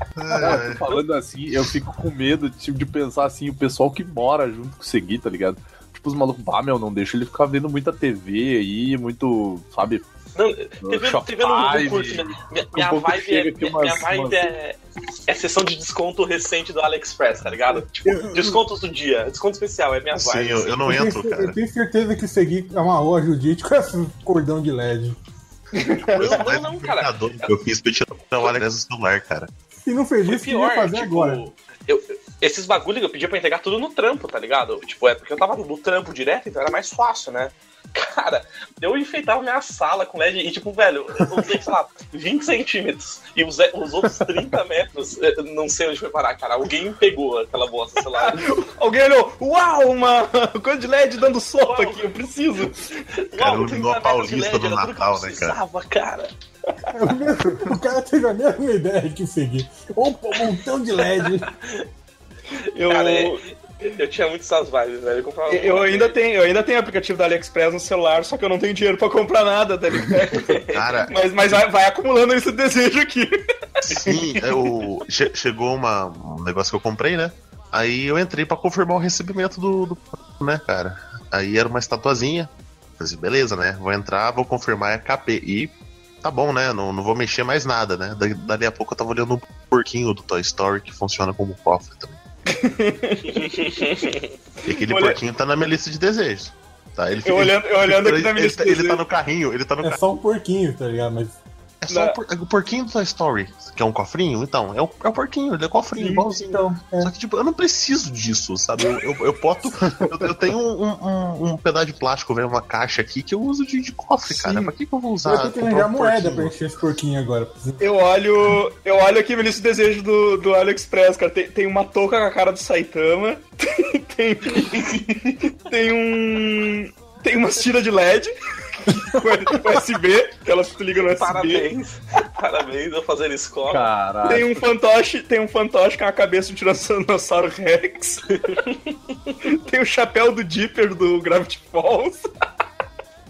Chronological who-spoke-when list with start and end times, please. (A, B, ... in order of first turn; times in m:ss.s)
0:00.2-0:00.9 A
0:00.4-0:10.0 B
0:10.4-0:20.9 C
0:10.8-0:14.5 B
0:18.0-0:18.6 D
0:20.2-0:21.6 A
0:20.8-0:25.2 D
0:25.8-0:26.3 E
0:26.1-0:27.5 C
0:26.1-0:29.5 A
0:29.9-0:31.4 D
0:30.3-0:48.5 C
0:48.2-0:53.1 E
0:51.6-0:52.3 C
0:53.2-0:56.3 C
0:53.4-0:55.6 A
0:56.9-1:01.5 D
1:02.7-1:03.4 E
1:02.9-1:06.2 C
1:05.5-1:13.3 E
1:10.7-1:11.1 A
1:13.8-1:32.2 A
1:32.5-1:33.8 E
1:33.4-1:34.3 C
1:34.6-1:40.0 A
1:34.8-1:35.2 E
1:37.2-1:39.0 E
1:39.8-1:41.4 D
1:41.8-1:56.5 A
1:41.9-1:42.2 E
1:46.0-1:47.1 D
1:55.2-1:57.8 D
1:57.8-2:08.3 E
2:08.9-2:11.7 E
2:11.0-2:13.9 C
2:13.7-2:14.6 B
2:14.3-2:18.3 E
2:19.4-2:22.3 E